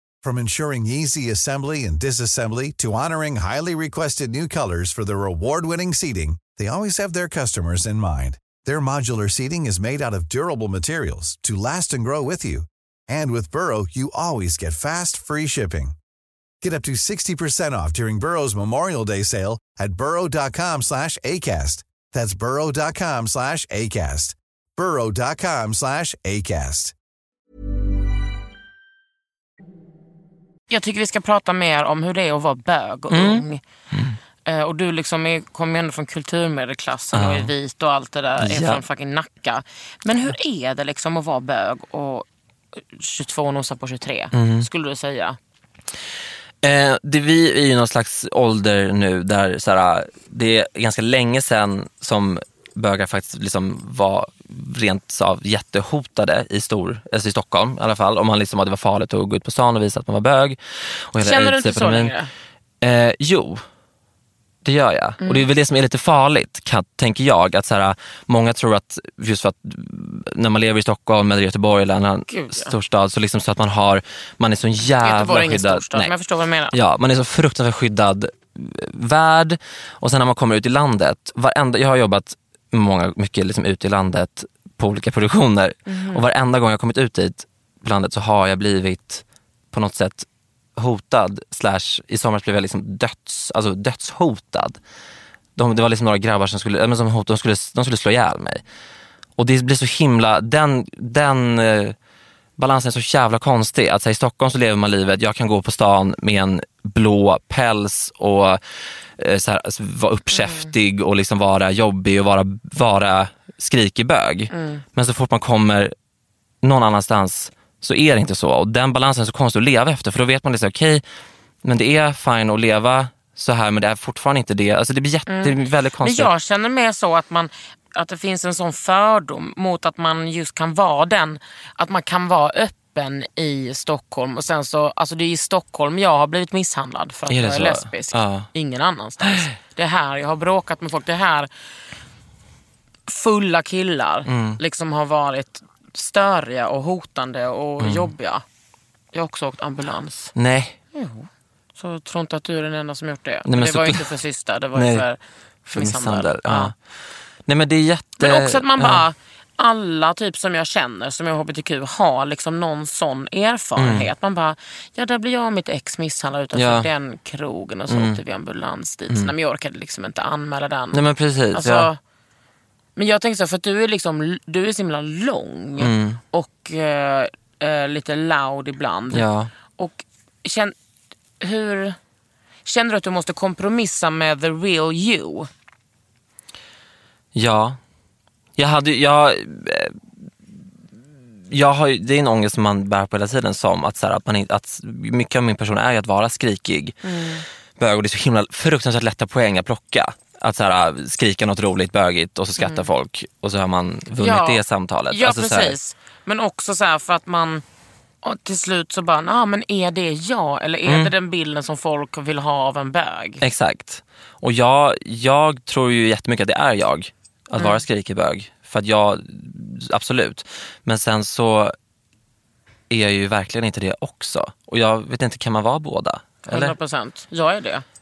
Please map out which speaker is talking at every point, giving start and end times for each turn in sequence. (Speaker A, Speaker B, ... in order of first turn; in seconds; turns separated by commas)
Speaker A: 0.2-15.9, Speaker A: 16.6-26.9, Speaker B: 30.7-33.6, Speaker C: 33.1-34.2, Speaker B: 34.5-45.4, Speaker C: 37.1-37.5, Speaker C: 38.4-38.8, Speaker C: 44.3-44.7, Speaker C: 46.6-62.1, Speaker B: 61.2-62.3, Speaker C: 62.8-63.6, Speaker C: 64.6-76.1, Speaker B: 65.2-65.5, Speaker B: 72.3-72.7, Speaker B: 75.0-76.7, Speaker C: 76.7-94.8, Speaker B: 85.9-86.2, Speaker C: 95.5-98.6, Speaker C: 99.4-102.0, Speaker C: 102.6-108.6, Speaker C: 109.2-115.9, Speaker B: 110.3-110.7, Speaker B: 114.5-114.8, Speaker C: 116.6-121.0, Speaker C: 121.6-126.3, Speaker B: 125.3-141.5, Speaker C: 137.3-138.5, Speaker C: 139.2-139.6, Speaker B: 143.1-148.4, Speaker C: 144.2-144.6, Speaker C: 147.8-148.1, Speaker B: 149.1-150.3, Speaker C: 150.3-150.8, Speaker B: 150.9-156.7, Speaker C: 153.4-154.1, Speaker C: 154.7-155.1, Speaker C: 155.7-156.7, Speaker C: 157.4-159.0, Speaker B: 158.2-171.0, Speaker C: 163.8-164.1, Speaker C: 166.5-166.9, Speaker C: 167.9-168.2, Speaker C: 170.9-171.9, Speaker B: 171.5-172.0, Speaker B: 172.9-180.7, Speaker C: 175.8-176.2, Speaker C: 179.1-179.5, Speaker B: 181.4-182.0, Speaker B: 182.6-185.5, Speaker C: 187.3-187.8, Speaker C: 188.6-190.0, Speaker C: 191.5-197.0, Speaker B: 197.0-197.4, Speaker C: 197.8-205.8, Speaker B: 202.6-202.9, Speaker B: 204.2-207.6, Speaker B: 208.2-213.4, Speaker C: 210.8-211.1, Speaker C: 213.4-221.7, Speaker B: 217.6-217.8, Speaker C: 222.9-226.8, Speaker B: 226.4-227.8